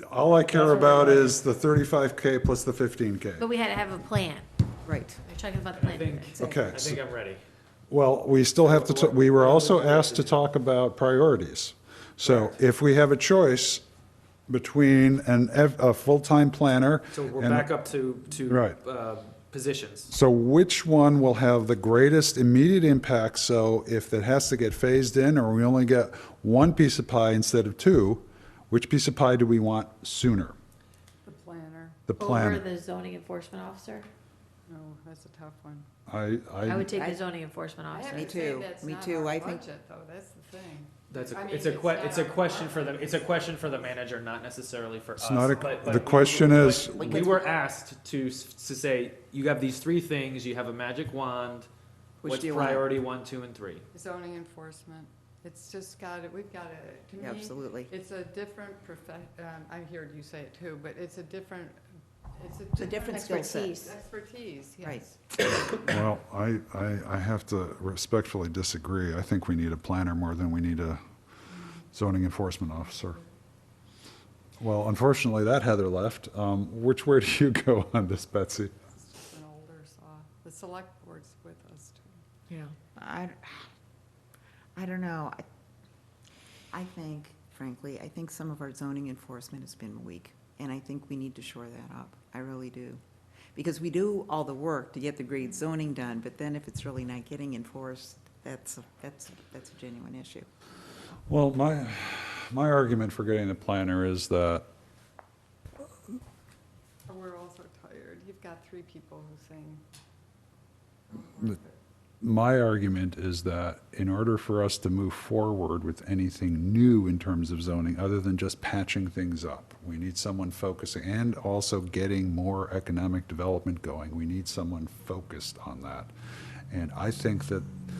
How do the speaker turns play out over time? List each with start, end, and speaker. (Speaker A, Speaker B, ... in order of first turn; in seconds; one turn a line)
Speaker A: 0.1-3.5
Speaker B: 0.5-1.4
Speaker C: 3.4-4.5
Speaker D: 4.9-5.2
Speaker C: 5.2-6.4
Speaker B: 5.8-7.4
Speaker A: 6.4-7.0
Speaker A: 7.9-13.8
Speaker B: 8.6-10.4
Speaker A: 14.5-17.7
Speaker B: 17.1-20.1
Speaker A: 18.5-18.8
Speaker A: 20.1-30.6
Speaker E: 31.2-32.0
Speaker A: 32.1-32.7
Speaker C: 32.2-34.1
Speaker E: 34.7-35.9
Speaker A: 36.1-36.9
Speaker C: 36.6-38.3
Speaker D: 36.9-37.2
Speaker E: 38.0-43.6
Speaker D: 38.0-39.7
Speaker B: 41.1-51.7
Speaker A: 45.2-47.4
Speaker D: 46.8-47.5
Speaker D: 52.2-52.9
Speaker B: 52.2-53.9
Speaker E: 54.0-61.8
Speaker D: 57.2-57.9
Speaker E: 62.4-65.2
Speaker D: 62.8-63.8
Speaker C: 63.1-64.0
Speaker A: 65.8-71.0
Speaker A: 71.9-73.2
Speaker A: 74.6-78.7
Speaker E: 79.0-82.2
Speaker D: 82.5-83.7
Speaker D: 84.8-85.5
Speaker D: 86.7-93.0
Speaker D: 93.5-100.5
Speaker A: 101.3-104.7
Speaker E: 107.1-109.8
Speaker E: 111.1-111.8
Speaker A: 112.2-126.1
Speaker A: 126.7-127.7